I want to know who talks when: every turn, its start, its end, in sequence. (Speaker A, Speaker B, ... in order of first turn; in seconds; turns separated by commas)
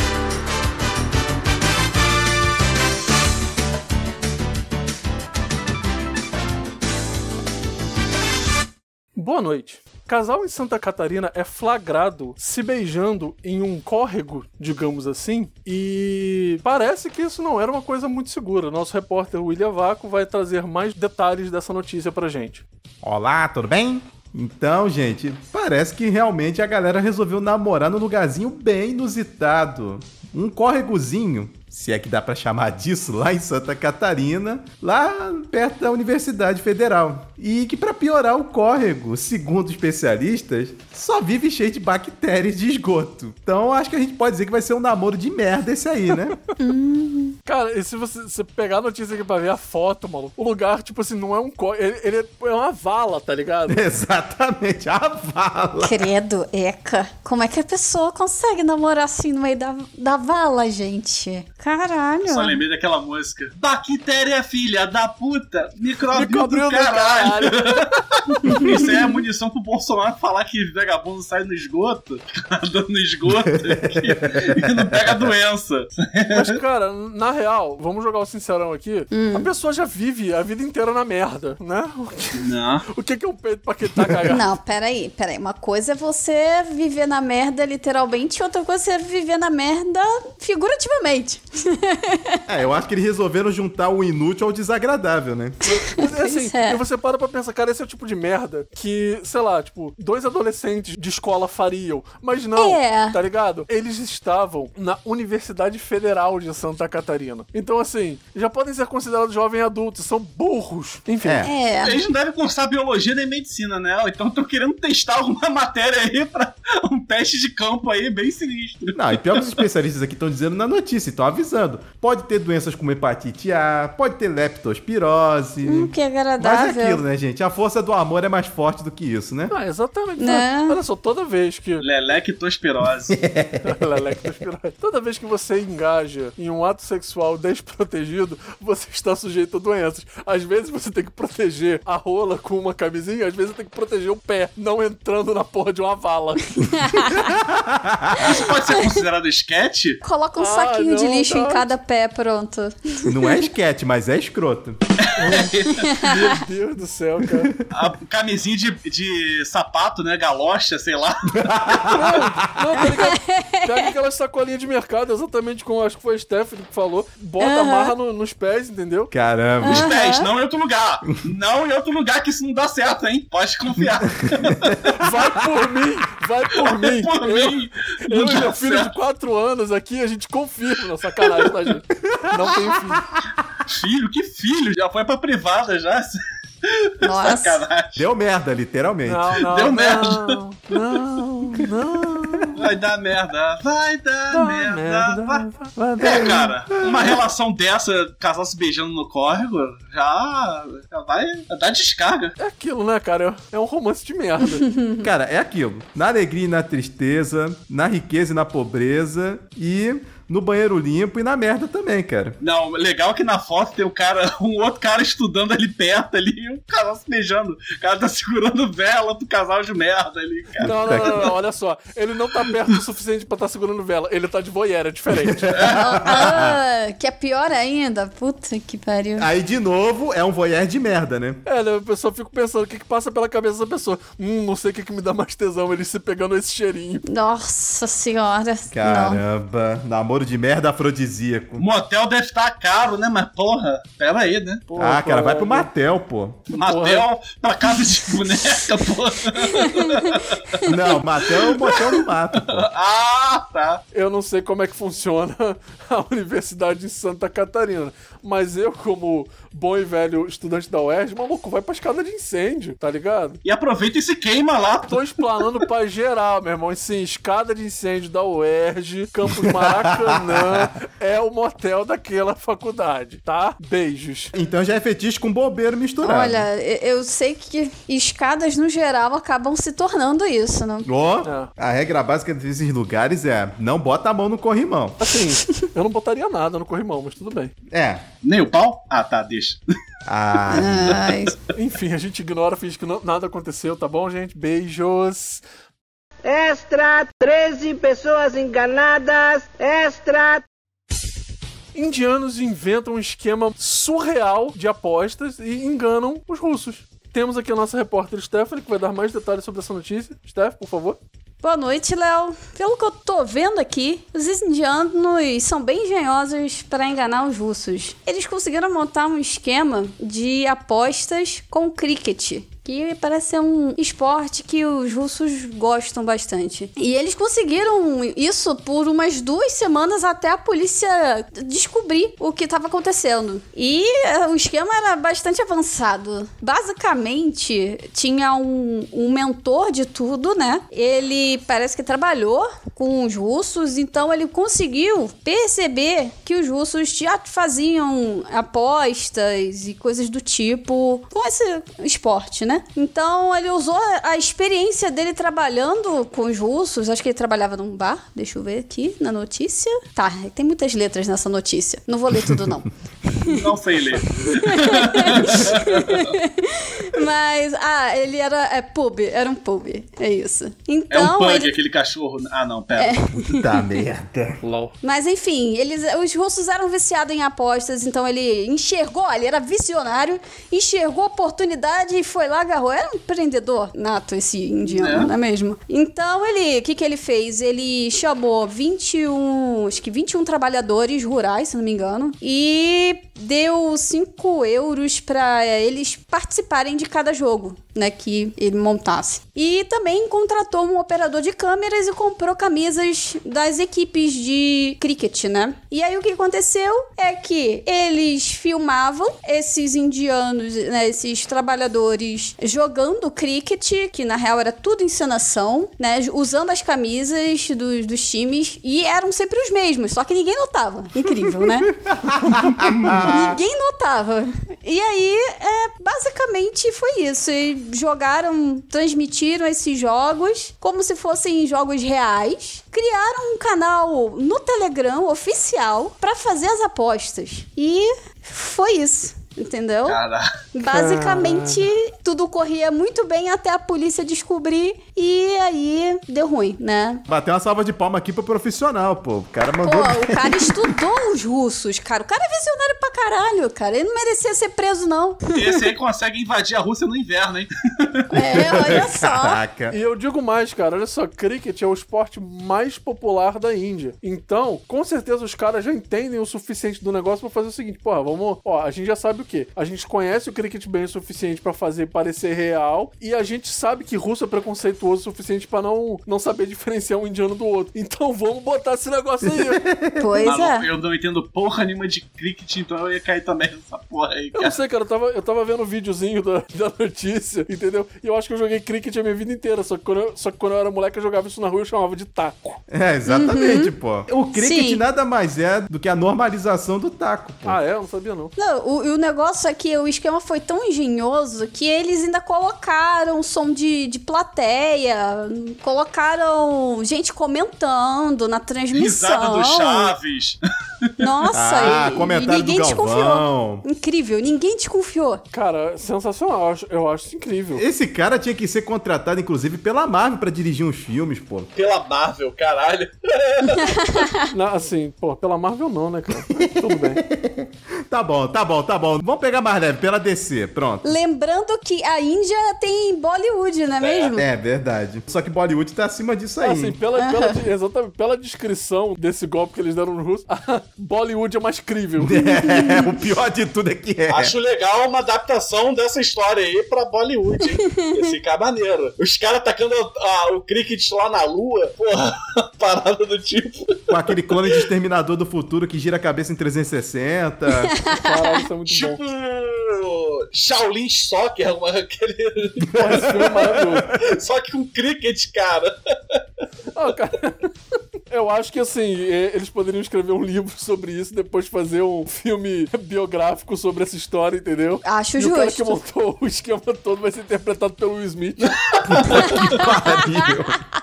Speaker A: 9.2-22.6, Speaker B: 23.0-46.4, Speaker C: 46.6-47.4, Speaker A: 47.5-53.8, Speaker B: 53.7-56.1, Speaker C: 55.8-62.6, Speaker D: 62.3-76.6, Speaker A: 66.1-67.9, Speaker C: 68.5-69.1, Speaker B: 73.2-75.3, Speaker A: 76.3-84.4, Speaker C: 79.1-79.5, Speaker D: 82.4-82.8, Speaker C: 84.3-92.4, Speaker B: 92.5-95.6, Speaker A: 95.6-111.5, Speaker C: 95.7-96.8, Speaker C: 102.6-103.2, Speaker B: 111.2-111.5, Speaker C: 111.4-112.0, Speaker D: 111.8-119.6, Speaker B: 118.9-129.5, Speaker C: 125.6-127.0, Speaker A: 129.5-131.8, Speaker C: 130.2-130.8, Speaker D: 131.8-133.2, Speaker B: 133.1-134.3, Speaker A: 133.6-146.5, Speaker C: 146.6-147.2, Speaker B: 147.0-148.4, Speaker D: 148.2-150.0, Speaker C: 150.0-153.5, Speaker A: 150.4-151.7, Speaker B: 153.1-154.8, Speaker D: 155.0-155.9, Speaker A: 155.2-157.5, Speaker C: 155.7-156.2, Speaker D: 157.7-161.5, Speaker B: 161.3-162.7, Speaker A: 161.8-169.1, Speaker C: 162.9-163.9, Speaker C: 167.4-167.9, Speaker B: 169.1-169.9, Speaker C: 169.6-170.3, Speaker D: 169.6-174.8, Speaker B: 174.2-175.6, Speaker A: 175.0-183.1, Speaker D: 176.5-178.9, Speaker B: 182.1-183.0, Speaker D: 183.7-188.0, Speaker C: 187.0-187.6, Speaker B: 188.0-189.4, Speaker A: 189.1-192.6, Speaker D: 189.4-190.4, Speaker B: 192.1-192.4, Speaker D: 192.6-195.4, Speaker A: 194.3-196.5, Speaker D: 196.0-202.4, Speaker B: 196.8-197.1, Speaker A: 202.4-204.7, Speaker C: 204.5-205.1, Speaker B: 205.0-212.4, Speaker D: 212.4-221.0, Speaker B: 220.6-221.3, Speaker A: 220.6-225.5, Speaker B: 225.1-226.6, Speaker D: 225.5-225.8, Speaker C: 225.7-229.3, Speaker B: 229.2-231.4, Speaker A: 231.5-237.0, Speaker C: 237.1-239.2, Speaker B: 238.7-241.7, Speaker D: 241.6-244.7, Speaker A: 244.7-245.7, Speaker B: 244.8-246.4, Speaker A: 246.5-247.1, Speaker D: 246.5-250.6, Speaker C: 249.4-250.7, Speaker B: 250.7-252.7, Speaker D: 252.3-253.8, Speaker A: 253.9-263.4, Speaker D: 263.4-265.0, Speaker A: 264.9-274.3, Speaker B: 269.4-270.7, Speaker B: 274.3-276.5, Speaker C: 276.0-280.9, Speaker B: 280.8-285.0, Speaker A: 281.2-281.5, Speaker A: 285.0-287.5, Speaker B: 287.7-288.0, Speaker D: 288.2-289.6, Speaker B: 290.1-290.9, Speaker D: 290.5-291.1, Speaker C: 290.5-291.3, Speaker A: 291.5-295.4, Speaker E: 296.2-300.4, Speaker A: 301.8-311.0, Speaker C: 311.4-363.5, Speaker D: 363.2-366.1, Speaker C: 364.1-371.5, Speaker D: 370.9-373.0, Speaker C: 372.8-373.6, Speaker B: 373.3-374.4, Speaker A: 374.4-374.8, Speaker C: 374.8-421.7, Speaker D: 384.6-385.1, Speaker B: 421.5-423.3, Speaker D: 422.1-423.4, Speaker C: 423.1-440.0, Speaker D: 439.9-440.3, Speaker C: 440.5-447.0, Speaker A: 440.7-441.7, Speaker B: 447.1-450.8, Speaker C: 449.6-455.7, Speaker D: 455.3-458.5, Speaker C: 458.1-459.4, Speaker B: 458.3-459.8, Speaker A: 459.7-479.6, Speaker B: 479.2-480.3, Speaker C: 480.0-480.7, Speaker D: 480.2-484.6, Speaker A: 484.3-492.6, Speaker B: 492.7-497.6, Speaker C: 493.1-493.7, Speaker C: 494.3-494.8, Speaker A: 497.4-498.3, Speaker C: 498.4-509.9, Speaker D: 508.7-511.1, Speaker C: 511.0-515.2, Speaker B: 511.3-513.6, Speaker A: 515.3-517.6, Speaker B: 517.5-521.5, Speaker D: 521.5-523.8, Speaker C: 523.5-524.3, Speaker A: 524.3-527.0, Speaker B: 526.3-531.0, Speaker C: 530.8-534.2, Speaker D: 533.8-534.2, Speaker B: 534.1-536.8, Speaker A: 536.4-542.1, Speaker C: 537.0-537.4, Speaker B: 542.0-544.3, Speaker C: 542.4-542.9, Speaker D: 544.1-554.6, Speaker C: 547.7-548.1, Speaker B: 553.9-557.7, Speaker C: 557.7-558.3, Speaker A: 557.9-559.0, Speaker D: 558.7-563.2, Speaker A: 562.7-563.9, Speaker B: 562.8-563.8, Speaker D: 563.9-566.2, Speaker A: 566.7-567.5, Speaker A: 568.1-578.6, Speaker C: 574.8-575.7, Speaker D: 578.5-579.3, Speaker B: 578.9-580.6, Speaker C: 579.1-580.5